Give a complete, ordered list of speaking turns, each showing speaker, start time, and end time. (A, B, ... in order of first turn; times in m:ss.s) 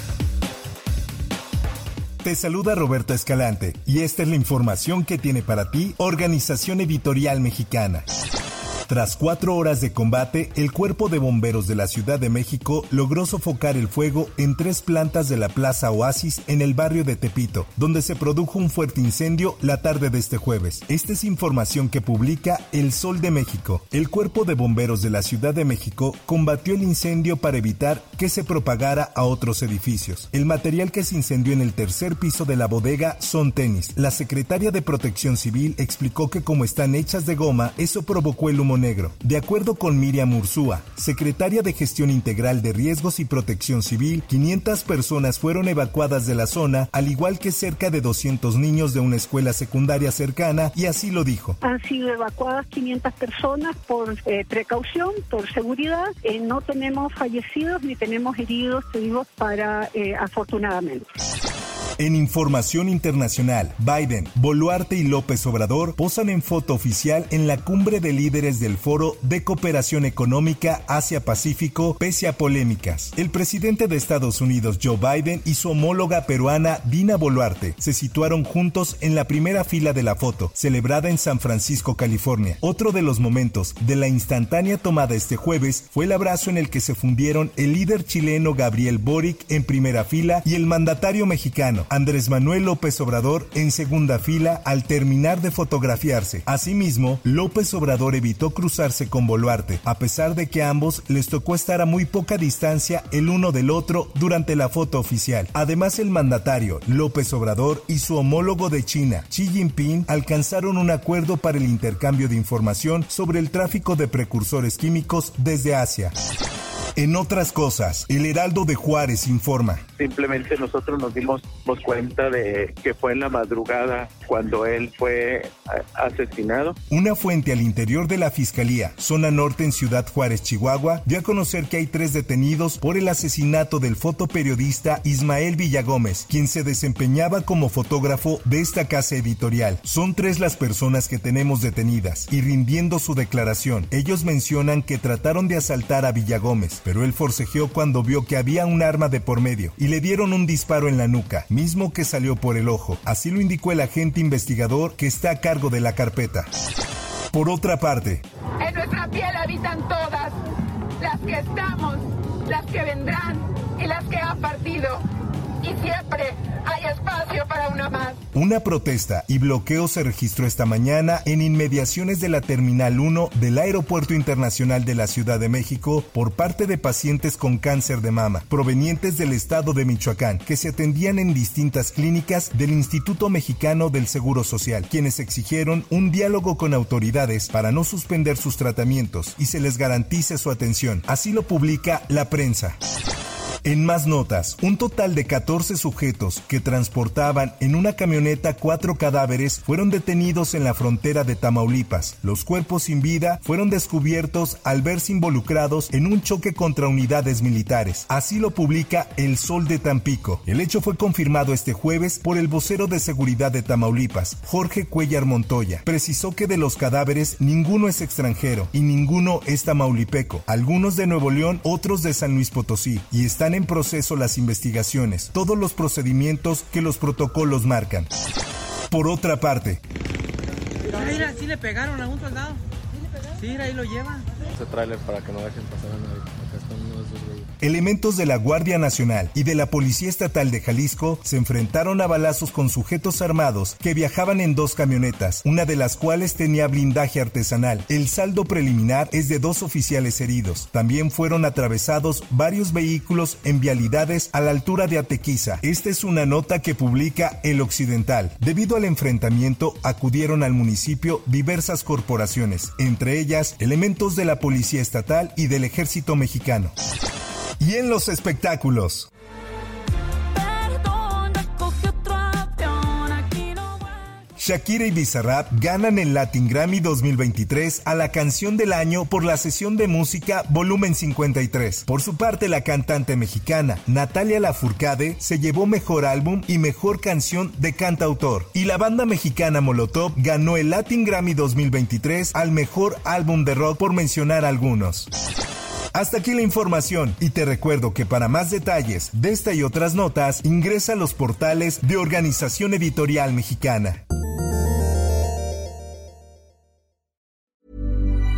0:02.2-0:08.0 A
0:08.9-0:51.6 A
0:51.6-1:01.0 B
1:02.0-1:56.1 A
1:57.0-1:59.8 A
2:00.0-2:06.8 C
2:06.9-2:36.5 A
2:37.3-2:38.2 A
2:38.6-2:40.4 D
2:41.0-2:45.0 D
2:45.6-2:48.2 D
2:48.3-3:12.8 A
3:13.6-3:48.1 A
3:48.9-3:49.8 A
3:50.9-3:52.6 E
3:53.3-3:54.4 E
3:54.5-3:57.5 F
3:57.6-4:26.7 A
4:27.6-4:29.1 A
4:30.3-4:34.1 E
4:34.4-4:55.1 A
4:55.9-5:04.0 A